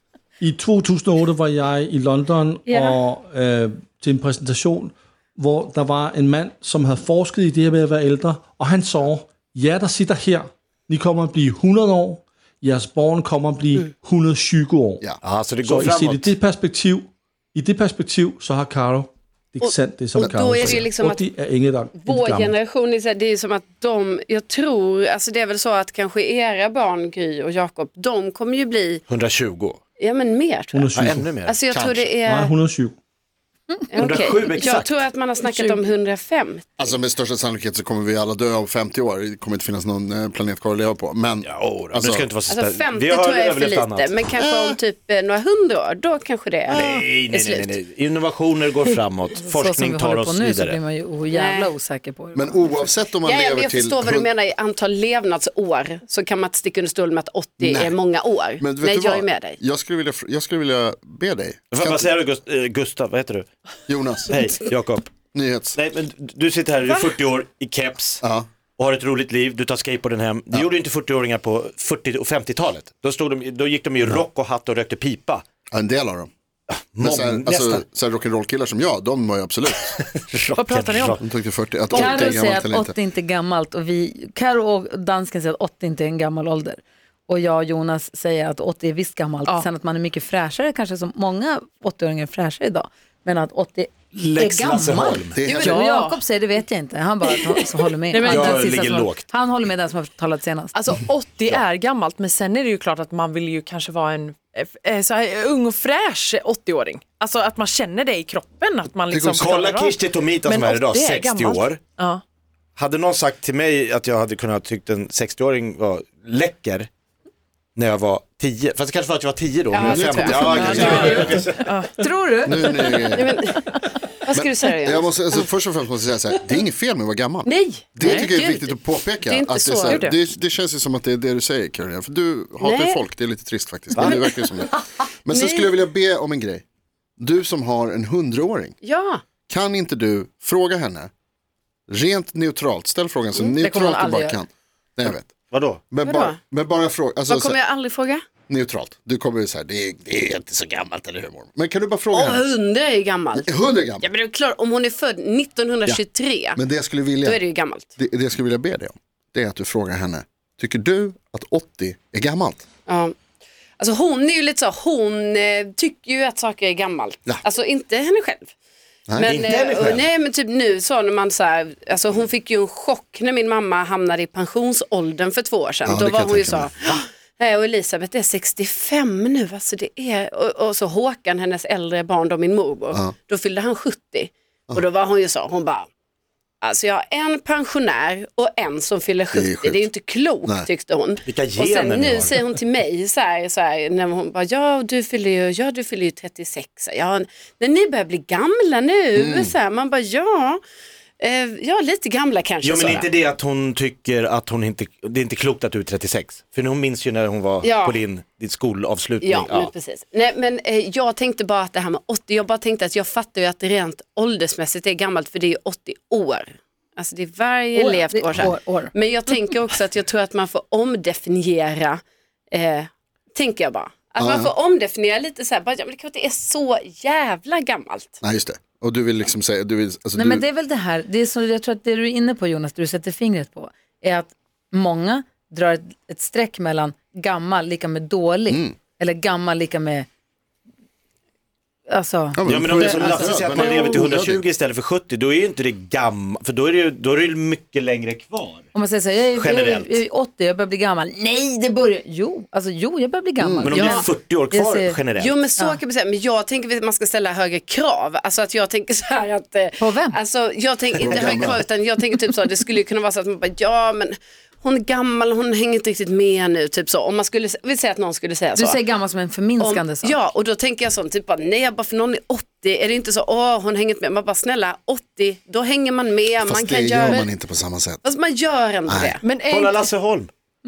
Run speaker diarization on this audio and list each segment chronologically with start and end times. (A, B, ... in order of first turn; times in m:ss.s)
0:00.4-0:15.0 A
0:02.7-0:03.0 B
0:15.2-0:16.3 C
0:15.6-0:22.6 A
0:19.6-0:21.2 D
0:22.0-0:29.0 D
0:29.1-0:29.8 C
0:30.0-0:32.6 D
0:30.7-0:31.3 A
0:31.0-0:31.8 C
0:31.7-0:32.0 E
0:32.1-0:32.9 A
0:33.7-0:34.2 B
0:33.9-0:37.0 D
0:34.0-0:35.0 C
0:35.4-0:35.8 B
0:36.8-0:42.2 E
0:41.4-0:44.3 C
0:42.5-0:47.8 D
0:44.4-0:44.8 E
0:46.7-0:50.8 C
0:49.4-0:52.9 B
0:51.3-0:51.7 D
0:52.3-0:54.3 E
0:53.2-0:59.6 D
0:57.6-0:58.0 E
0:58.6-1:02.1 E
1:01.7-1:03.5 C
1:03.9-1:04.4 E
1:04.3-1:05.1 C
1:05.3-1:05.8 E
1:05.7-1:08.2 C
1:08.2-1:08.5 E
1:08.8-1:15.4 C
1:15.7-1:16.3 E
1:16.7-1:17.8 C
1:17.0-1:19.9 E
1:19.9-1:21.2 C
1:20.6-1:21.2 F
1:21.2-1:22.9 E
1:21.9-1:40.8 B
1:34.1-1:35.4 C
1:35.3-1:35.8 E
1:35.5-1:36.2 F
1:37.6-1:38.8 F
1:38.2-1:39.2 C
1:40.8-1:52.2 F
1:49.1-1:49.5 E
1:49.4-1:51.8 C
1:52.8-1:56.9 C
1:57.8-2:01.6 C
1:59.7-2:01.2 D
1:59.8-2:01.2 E
2:00.5-2:01.9 F
2:02.0-2:03.1 B
2:02.4-2:03.4 E
2:03.1-2:03.6 D
2:04.2-2:05.5 D
2:04.3-2:16.6 E
2:07.4-2:10.1 D
2:08.0-2:08.3 F
2:09.9-2:10.2 F
2:12.6-2:13.0 D
2:14.0-2:14.2 C
2:14.0-2:14.4 D
2:15.3-2:15.7 D
2:17.2-2:18.8 E
2:18.8-2:19.2 D
2:19.5-2:21.1 E
2:21.9-2:25.3 E
2:23.6-2:24.4 B
2:25.5-2:25.8 C
2:25.9-2:27.6 E
2:26.0-2:26.4 D
2:27.3-2:28.2 D
2:28.5-2:32.5 E
2:32.1-2:36.6 D
2:33.4-2:34.1 E
2:36.6-2:37.4 E
2:37.2-2:37.9 D
2:38.0-2:42.6 E
2:42.9-2:43.1 D
2:43.8-2:48.5 D
2:49.1-2:49.3 E
2:49.2-3:05.9 D
2:49.2-2:50.1 C
2:55.8-2:56.7 E
3:06.6-3:20.6 D
3:09.3-3:09.9 E
3:11.2-3:12.4 C
3:19.2-3:19.5 E
3:21.2-3:23.1 D
3:22.6-3:29.7 C
3:27.6-3:28.0 D
3:29.2-3:42.0 D
3:37.7-3:38.9 B
3:42.5-3:48.2 D
3:44.2-3:44.5 E
3:48.2-3:50.4 E
3:50.2-4:00.1 B
3:58.5-3:58.7 E
4:01.9-4:04.0 B
4:02.4-4:04.4 E
4:02.4-4:08.7 C
4:08.7-4:15.0 B
4:09.3-4:10.0 C
4:13.4-4:13.8 E
4:13.6-4:15.4 C
4:15.2-4:28.8 D
4:19.8-4:20.2 B
4:21.0-4:21.6 E
4:28.6-4:30.2 B
4:29.6-4:37.3 D
4:36.4-4:38.0 E
4:38.0-4:39.2 D
4:38.9-4:39.2 E
4:39.2-4:39.8 F
4:39.5-4:40.3 C